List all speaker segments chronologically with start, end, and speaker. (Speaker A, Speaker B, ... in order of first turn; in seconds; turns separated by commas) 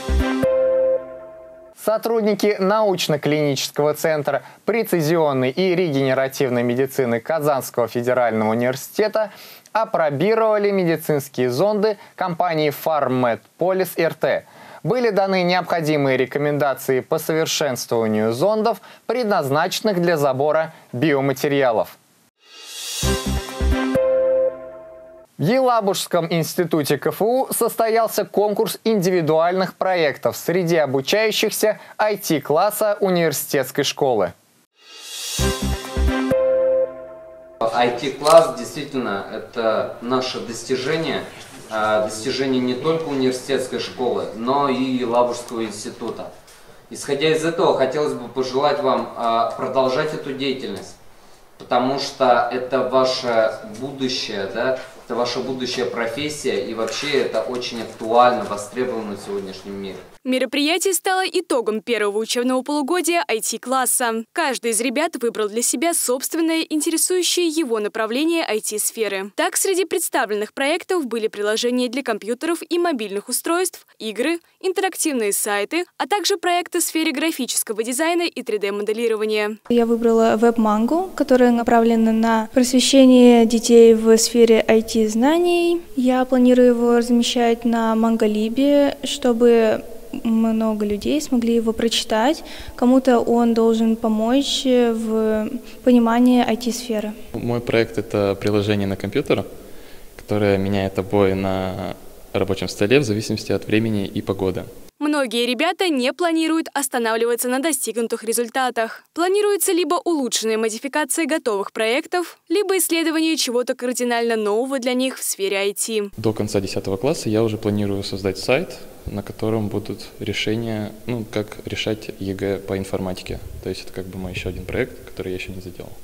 Speaker A: 1.8-22.0, Speaker A: 25.4-34.3, Speaker B: 37.6-46.3, Speaker B: 46.9-50.9, Speaker B: 51.6-60.0, Speaker C: 60.2-79.6, Speaker D: 79.7-97.1, Speaker E: 97.3-99.5, Speaker E: 100.2-104.7, Speaker C: 105.0-116.1, Speaker E: 116.2-126.0